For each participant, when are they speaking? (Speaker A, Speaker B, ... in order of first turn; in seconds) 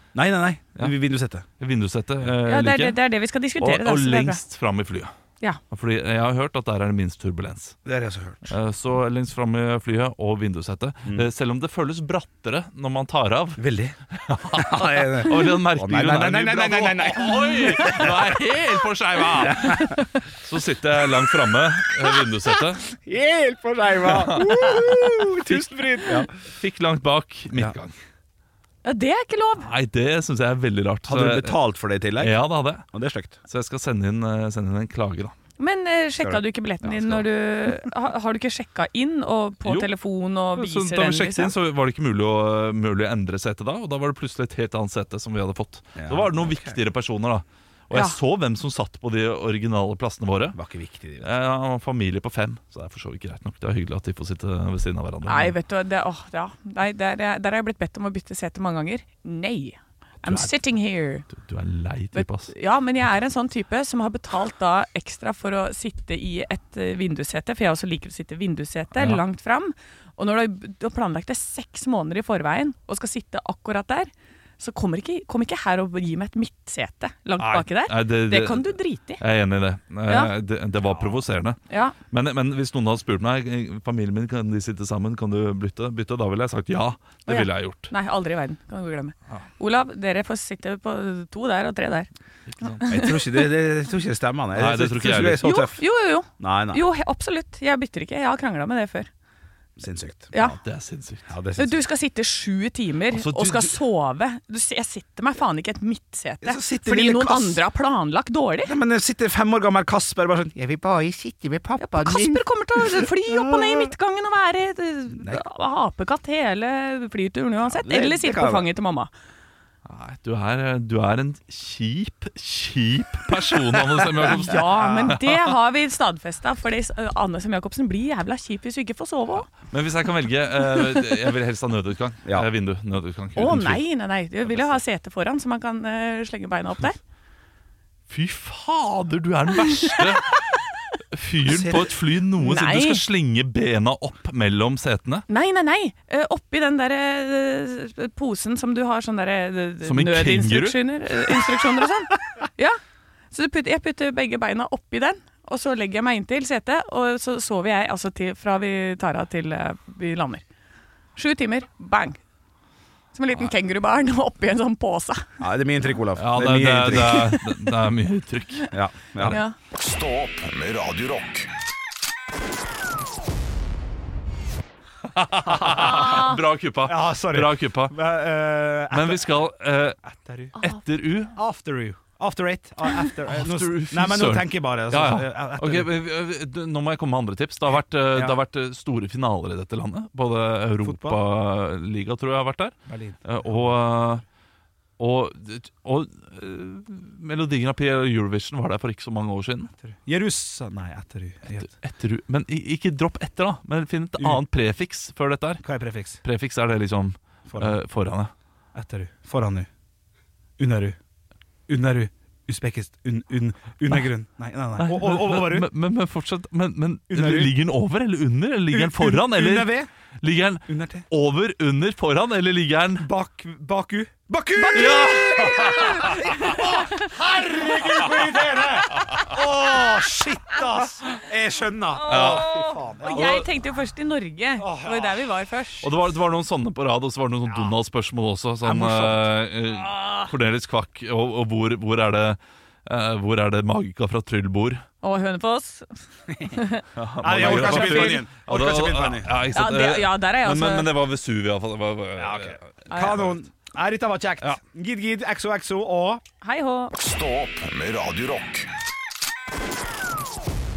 Speaker A: 0.1-1.4, 7.8-8.5, 13.6-18.4, 19.4-20.0, 22.9-26.3, 31.1-32.4, 32.9-33.4, 46.0-46.8, 50.5-51.3, 80.8-81.2, 92.9-95.8, 96.4-96.8, 99.8-100.3, 101.3-101.8, 106.4-107.6, 108.6-113.9, 117.7-118.7, 141.4-141.9, 165.4-167.4, 168.7-169.4, 175.5-176.2, 176.8-179.3, 180.0-180.6, 181.3-185.9, 187.7-188.4, 190.8-191.2, 192.9-193.8, 199.8-201.7, 205.6-206.2, 207.5-207.8, 208.7-209.7, 210.6-211.0, 211.7-215.7, 217.1-217.5, 218.7-219.9, 220.7-221.0, 223.0-233.3, 234.6-235.3, 238.6-239.3, 247.2-249.4, 252.2-256.2
Speaker B: 1.6-3.0, 3.6-5.1, 5.7-7.8, 8.5-22.9, 24.0-24.5, 26.3-27.9, 29.6-31.6, 32.2-32.9, 33.5-35.3, 36.9-37.2, 39.6-39.9, 40.5-50.6, 51.2-55.5, 60.2-60.5, 61.3-62.5, 68.9-69.2, 77.4-81.6, 82.1-87.9, 92.5-92.8, 94.5-95.5, 100.3-101.3, 103.1-103.8, 119.8-125.5, 129.5-133.8, 134.4-134.8, 138.1-140.4, 141.1-145.3, 149.8-150.8, 166.2-169.4, 175.1-177.9, 178.9-180.0, 180.6-181.3, 183.3-192.7, 193.2-194.2, 195.0-199.7, 201.5-205.6, 206.2-208.3, 214.8-223.1, 224.7-226.4, 228.0-229.2, 232.1-232.5, 233.1-233.4, 235.8-244.8, 246.9-253.3
Speaker C: 2.4-4.4, 24.5-24.8, 28.8-29.7, 35.6-41.5, 47.9-48.2, 55.2-61.3, 62.1-79.2, 80.1-80.3, 81.7-81.9, 87.3-92.1, 92.8-93.2, 95.4-99.1, 100.3-100.6, 101.6-108.7, 111.8-119.1, 124.3-129.5, 130.8-131.2, 133.3-137.0, 139.7-140.2, 142.4-143.0, 145.3-152.8, 153.3-160.4, 161.2-162.2, 163.1-165.2, 169.2-169.6, 175.8-176.3, 224.6-227.1, 231.9-235.9, 239.8-240.3, 245.0-248.2, 249.5-250.9, 252.9-253.2, 256.4-256.9
Speaker D: 169.7-171.5, 257.0-258.7